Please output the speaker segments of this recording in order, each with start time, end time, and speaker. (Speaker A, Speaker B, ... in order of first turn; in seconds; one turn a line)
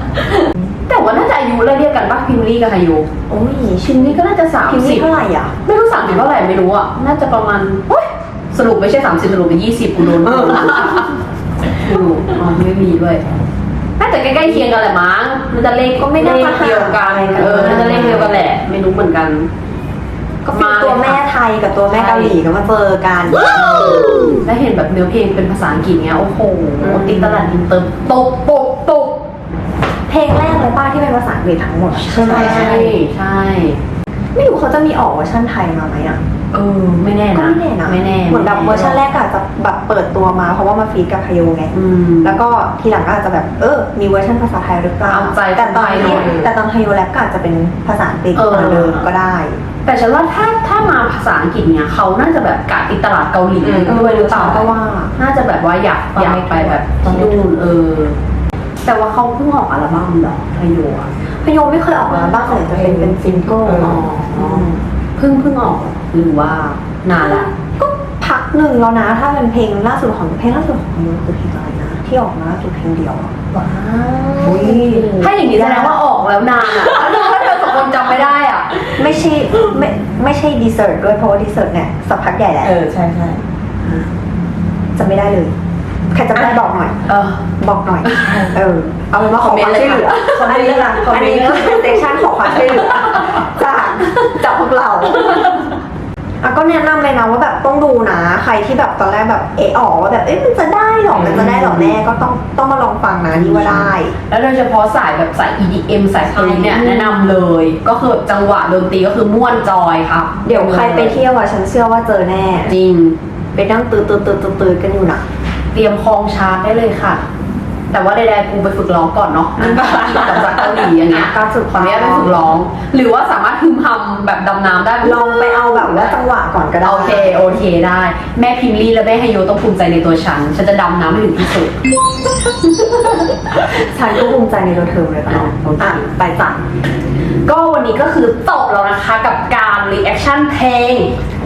Speaker A: 0.9-3.1
Speaker B: 3.3-5.5
Speaker A: 3.8-5.1
Speaker A: 5.6-11.1
Speaker B: 10.2-11.0
Speaker A: 11.7-13.2
Speaker A: 14.0-19.5
Speaker B: 16.0-18.4
Speaker C: 17.4-18.4
Speaker B: 20.4-24.3
Speaker A: 20.5-21.2
Speaker A: 21.9-22.4
Speaker A: 24.3-29.2
Speaker B: 26.8-27.5
Speaker B: 30.1-33.0
Speaker A: 32.0-33.8
Speaker C: 32.1-32.8
Speaker B: 34.3-36.2
Speaker A: 36.5-39.0
Speaker B: 37.3-49.6
Speaker A: 41.7-42.4
Speaker A: 45.1-46.3
Speaker C: 46.0-46.5
Speaker A: 48.4-49.1
Speaker A: 49.9-58.2
Speaker C: 53.6-54.0
Speaker B: 53.8-55.1
Speaker C: 56.2-57.5
Speaker B: 56.3-56.6
Speaker A: 58.8-61.1
Speaker B: 61.4-64.8
Speaker C: 62.1-64.1
Speaker A: 63.8-67.5
Speaker B: 67.2-73.3
Speaker C: 73.5-75.2
Speaker B: 74.4-76.0
Speaker A: 75.2-78.7
Speaker C: 76.8-77.2
Speaker B: 79.0-82.8
Speaker C: 82.6-83.4
Speaker B: 85.0-85.5
Speaker B: 86.1-87.0
Speaker A: 87.0-87.4
Speaker B: 87.6-95.5
Speaker A: 88.1-88.4
Speaker C: 88.2-88.5
Speaker A: 89.3-92.0
Speaker B: 96.4-104.2
Speaker A: 101.1-101.9
Speaker A: 103.7-111.2
Speaker B: 106.4-107.3
Speaker B: 110.4-112.8
Speaker A: 112.7-113.2
Speaker B: 113.5-115.2
Speaker A: 115.7-117.2
Speaker A: 117.9-126.2
Speaker B: 119.6-120.5
Speaker B: 121.1-122.4
Speaker B: 125.0-127.5
Speaker A: 126.8-131.8
Speaker B: 133.7-136.6
Speaker A: 135.3-136.1
Speaker A: 137.4-141.1